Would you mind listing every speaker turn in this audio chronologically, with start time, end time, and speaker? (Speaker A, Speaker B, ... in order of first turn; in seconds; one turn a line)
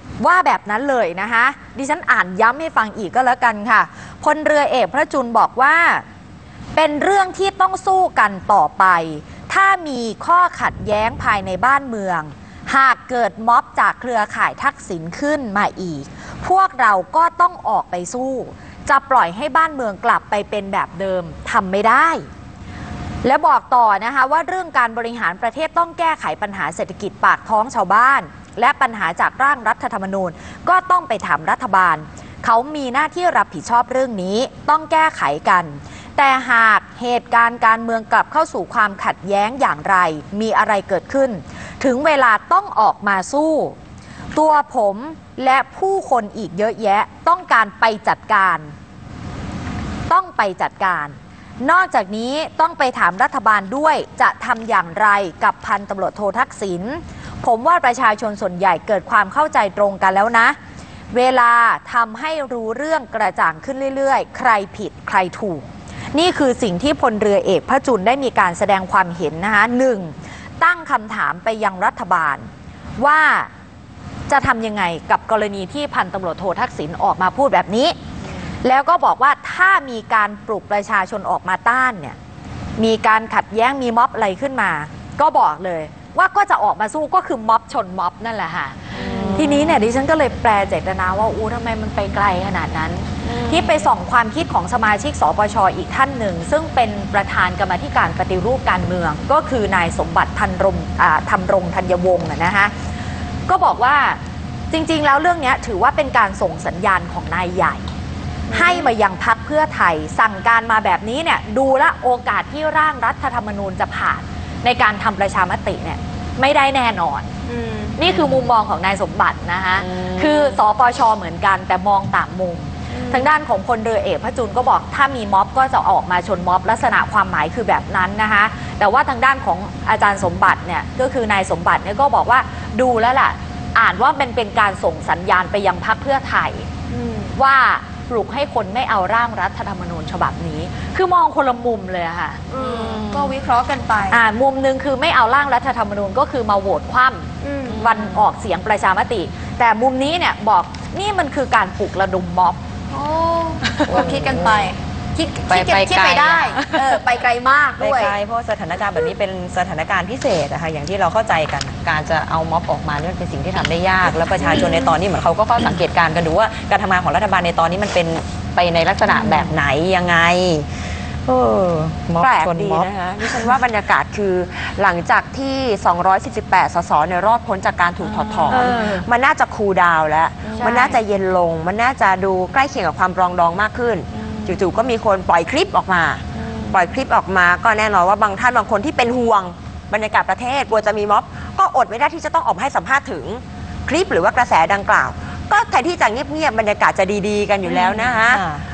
Speaker A: 0.2-6.0
Speaker A: 6.8-22.3
Speaker A: 23.2-43.8
Speaker A: 44.4-48.7
Speaker A: 50.1-60.6
Speaker A: 61.1-73.5
Speaker A: 74.3-78.0
Speaker A: 78.6-82.2
Speaker A: 82.8-102.7
Speaker B: 88.9-89.7
Speaker C: 89.0-89.7
Speaker C: 93.3-93.7
Speaker A: 103.5-104.2
Speaker A: 104.7-107.9
Speaker D: 108.5-108.9
Speaker A: 108.5-117.3
Speaker D: 117.5-118.0
Speaker A: 118.0-136.7
Speaker C: 118.1-118.4
Speaker C: 119.8-120.5
Speaker D: 122.9-123.3
Speaker D: 136.9-137.4
Speaker A: 137.4-142.4
Speaker D: 142.5-144.2
Speaker C: 142.6-143.3
Speaker A: 144.1-152.6
Speaker D: 147.4-147.9
Speaker C: 147.7-148.2
Speaker D: 152.9-158.2
Speaker C: 153.8-154.7
Speaker C: 155.5-156.8
Speaker C: 157.8-170.7
Speaker C: 171.3-173.6
Speaker B: 172.2-198.4
Speaker C: 178.2-178.9
Speaker A: 178.5-179.0
Speaker A: 180.6-181.0
Speaker C: 197.7-198.6